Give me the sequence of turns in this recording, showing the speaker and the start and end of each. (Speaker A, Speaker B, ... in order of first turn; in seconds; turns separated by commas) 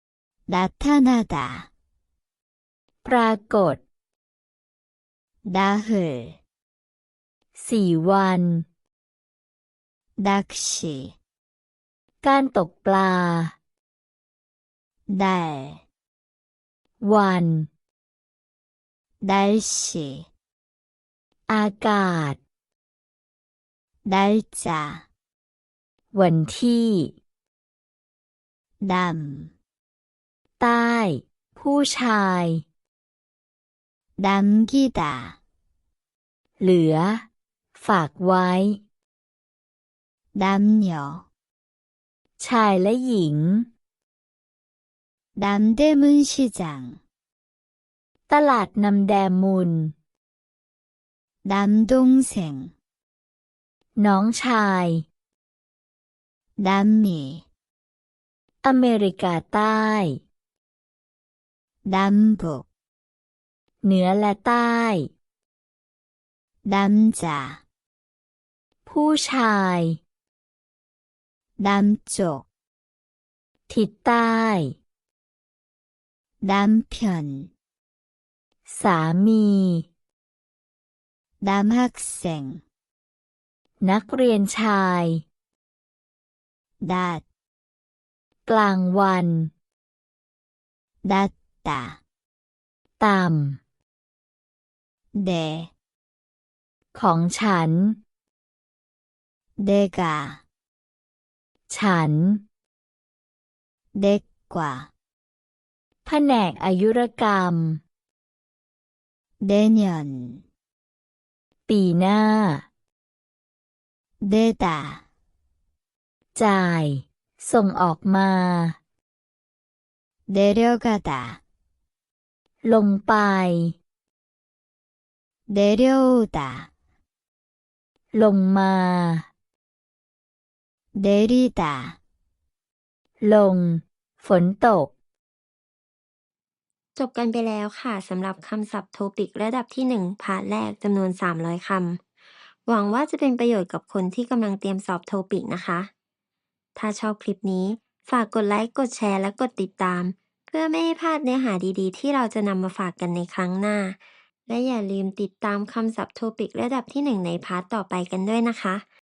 Speaker A: 0.5-1.7, Speaker B: 3.0-3.8, Speaker A: 5.4-6.4, Speaker B: 7.5-8.6, Speaker A: 10.2-11.1, Speaker B: 12.2-13.5, Speaker A: 15.1-15.8, Speaker B: 17.0-17.7, Speaker A: 19.2-20.3, Speaker B: 21.5-22.4, Speaker A: 24.1-25.1, Speaker B: 26.1-27.1, Speaker A: 28.8-29.5, Speaker B: 30.6-32.6, Speaker A: 34.2-35.4, Speaker B: 36.6-38.8, Speaker A: 40.3-41.2, Speaker B: 42.4-43.7, Speaker A: 45.4-47.0, Speaker B: 48.3-49.9, Speaker A: 51.4-52.7, Speaker B: 54.0-55.0, Speaker A: 56.6-57.4, Speaker B: 58.6-60.2, Speaker A: 61.8-62.6, Speaker B: 63.8-65.1, Speaker A: 66.6-67.6, Speaker B: 68.8-70.0, Speaker A: 71.6-72.4, Speaker B: 73.7-74.8, Speaker A: 76.4-77.5, Speaker B: 78.7-79.9, Speaker A: 81.4-82.6, Speaker B: 83.8-85.2, Speaker A: 86.8-87.2, Speaker B: 88.5-89.5, Speaker A: 91.0-92.0, Speaker B: 93.0-93.6, Speaker A: 95.1-95.7, Speaker B: 96.9-98.0, Speaker A: 99.6-100.4, Speaker B: 101.7-102.4, Speaker A: 103.9-104.9, Speaker B: 106.0-107.8, Speaker A: 109.4-110.4, Speaker B: 111.7-112.6, Speaker A: 114.2-115.0, Speaker B: 116.3-118.8, Speaker A: 120.3-121.4, Speaker B: 122.6-123.8, Speaker A: 125.5-126.7, Speaker B: 128.1-129.3, Speaker A: 130.9-132.0, Speaker B: 133.2-134.9, Speaker C: 136.9-142.0, Speaker C: 142.7-145.9, Speaker C: 146.8-158.8